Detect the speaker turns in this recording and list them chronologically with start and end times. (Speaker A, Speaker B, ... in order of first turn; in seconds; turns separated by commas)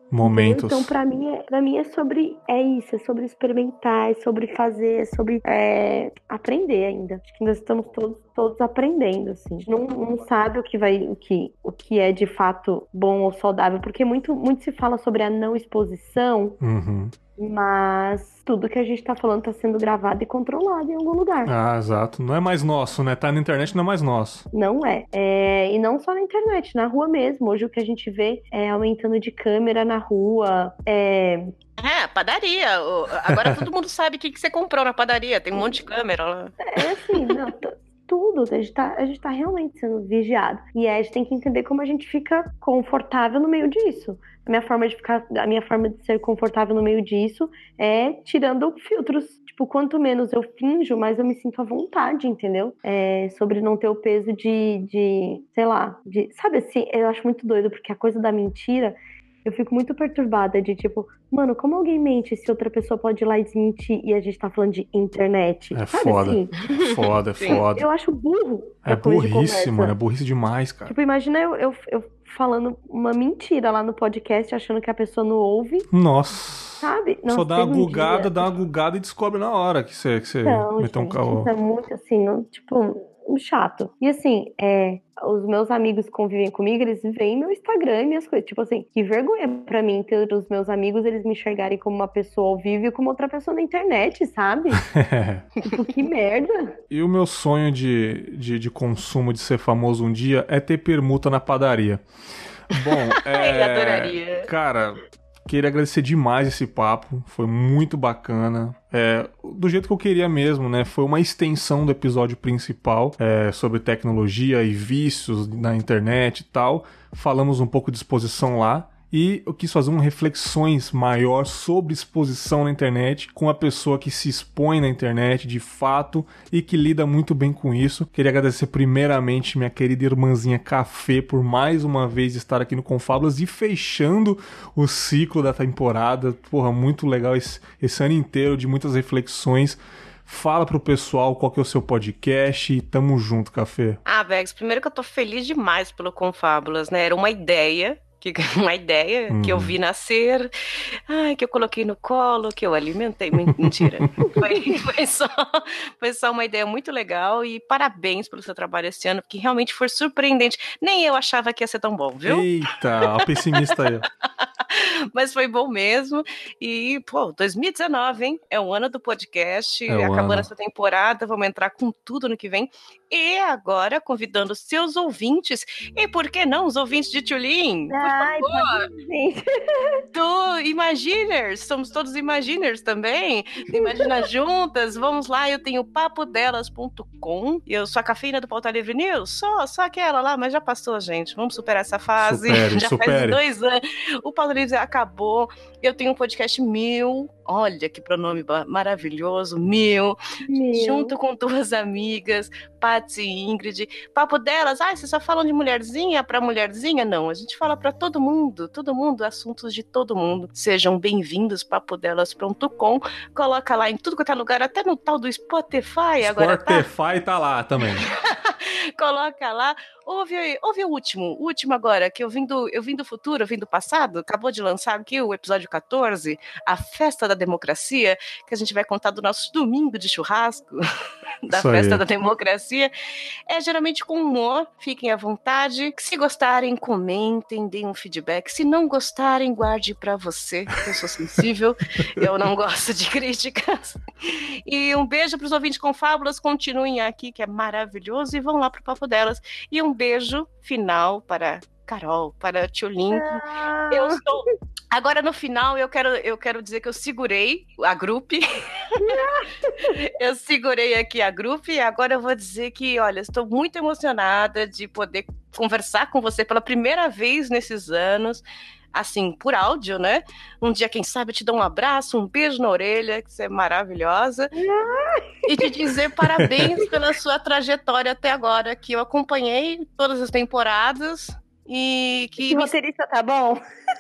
Speaker A: 0.1-0.9, Speaker B: 0.2-16.6, Speaker A: 16.6-17.1, Speaker B: 17.4-21.5, Speaker A: 21.4-24.4, Speaker B: 24.5-31.5, Speaker C: 31.8-36.6, Speaker A: 33.3-33.6, Speaker B: 36.7-66.6, Speaker A: 65.7-67.9, Speaker C: 67.4-67.6, Speaker B: 67.6-69.9, Speaker A: 68.9-70.9, Speaker B: 70.9-75.9, Speaker A: 75.9-81.5, Speaker B: 76.8-78.5, Speaker B: 80.4-94.8, Speaker A: 94.8-95.4, Speaker B: 95.7-96.8, Speaker A: 96.9-102.0, Speaker A: 102.7-144.0, Speaker C: 103.3-104.5, Speaker C: 144.1-150.5, Speaker A: 149.3-149.7, Speaker C: 151.1-162.5, Speaker A: 153.4-154.3, Speaker A: 162.2-164.1, Speaker C: 163.0-163.9, Speaker C: 164.4-178.9, Speaker A: 169.9-170.5, Speaker B: 177.9-180.0, Speaker C: 180.1-200.2, Speaker B: 183.7-184.1, Speaker A: 192.2-193.4, Speaker B: 200.4-201.2, Speaker C: 200.7-216.9, Speaker A: 216.2-218.1, Speaker C: 217.9-230.8, Speaker C: 231.4-232.9, Speaker A: 231.5-232.0, Speaker C: 233.5-259.2, Speaker B: 253.1-254.2, Speaker B: 259.0-259.9, Speaker C: 259.9-274.5, Speaker B: 274.6-275.9, Speaker C: 275.4-282.7, Speaker B: 282.4-283.6